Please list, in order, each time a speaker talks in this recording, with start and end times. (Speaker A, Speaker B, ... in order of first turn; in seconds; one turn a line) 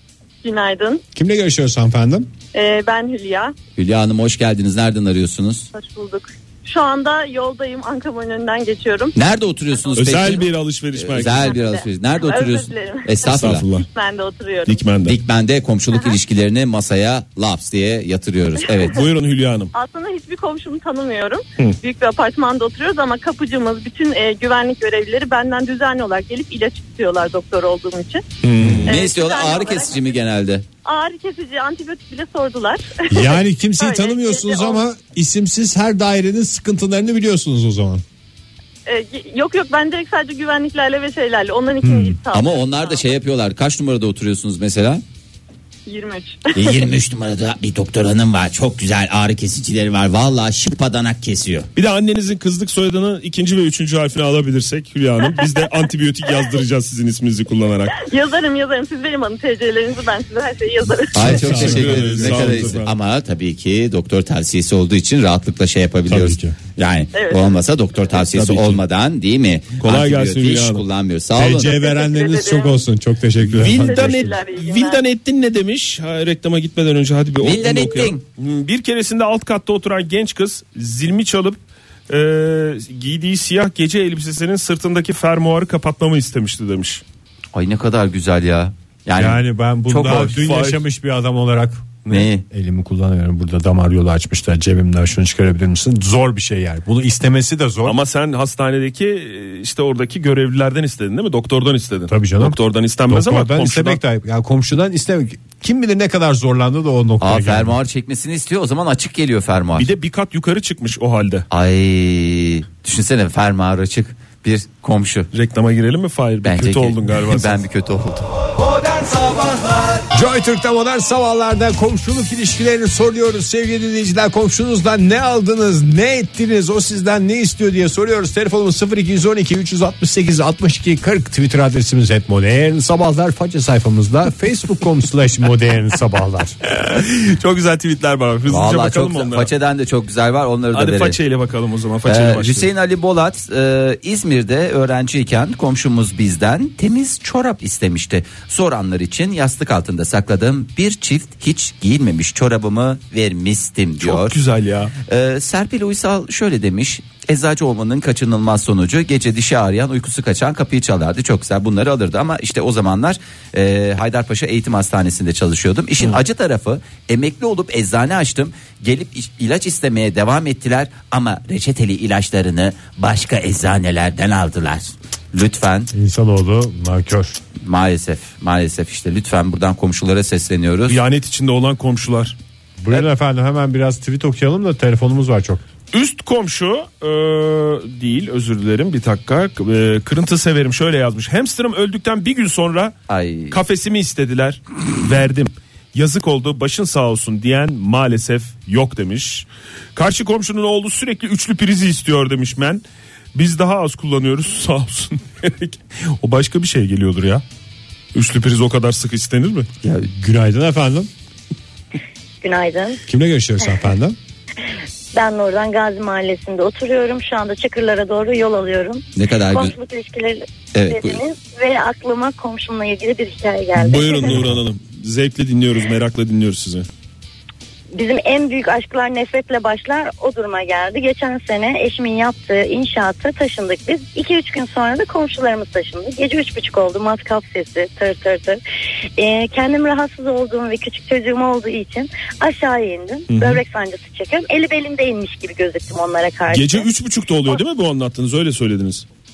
Speaker A: 0.4-1.0
Speaker B: 1.1-2.3
Speaker A: 2.5-3.6
Speaker C: 3.8-5.7
Speaker A: 5.7-9.2
Speaker C: 9.2-13.7
Speaker A: 9.8-10.4
Speaker D: 9.9-11.6
Speaker A: 11.2-14.8
Speaker D: 13.3-13.9
Speaker D: 14.7-15.2
Speaker C: 15.0-19.0
Speaker D: 18.9-19.7
Speaker A: 19.7-28.2
Speaker D: 28.4-28.9
Speaker C: 28.8-30.6
Speaker A: 28.9-30.1
Speaker A: 30.9-34.8
Speaker B: 33.1-38.0
Speaker A: 38.9-43.1
Speaker B: 41.8-42.2
Speaker C: 42.3-45.0
Speaker A: 45.9-46.9
Speaker C: 46.5-51.7
Speaker D: 51.8-58.0
Speaker A: 55.2-55.6
Speaker A: 58.0-61.3
Speaker C: 61.1-71.7
Speaker B: 61.2-62.8
Speaker D: 61.2-62.9
Speaker B: 66.1-66.6
Speaker A: 67.1-67.6
Speaker D: 68.1-68.8
Speaker D: 69.8-70.8
Speaker B: 71.4-74.4
Speaker A: 71.6-72.9
Speaker D: 73.5-87.0
Speaker A: 73.7-75.0
Speaker C: 77.4-78.2
Speaker C: 87.5-90.4
Speaker B: 89.2-98.0
Speaker D: 90.2-90.8
Speaker C: 92.1-92.5
Speaker D: 97.8-104.0
Speaker B: 102.1-102.6
Speaker B: 103.1-107.8
Speaker C: 107.2-109.9
Speaker D: 109.8-111.5
Speaker C: 111.5-115.3
Speaker D: 115.3-117.6
Speaker C: 116.4-120.0
Speaker B: 120.1-136.6
Speaker D: 136.7-139.5
Speaker C: 138.5-141.2
Speaker D: 140.7-142.7
Speaker C: 142.1-154.4
Speaker D: 154.0-154.9
Speaker C: 155.1-175.9
Speaker B: 175.9-177.4
Speaker C: 177.6-181.0
Speaker D: 180.9-182.4
Speaker B: 182.8-185.6
Speaker D: 185.9-193.0
Speaker C: 193.1-193.6
Speaker D: 193.5-202.8
Speaker D: 203.3-207.4
Speaker D: 208.1-209.7
Speaker C: 209.8-210.1
Speaker B: 210.2-211.1
Speaker E: 212.4-213.0
Speaker B: 213.1-214.2
Speaker E: 215.1-224.4
Speaker C: 219.2-219.7
Speaker C: 220.7-221.2
Speaker D: 223.8-226.9
Speaker E: 227.9-238.6
Speaker E: 239.2-246.9
Speaker D: 243.3-243.6
Speaker D: 246.5-249.1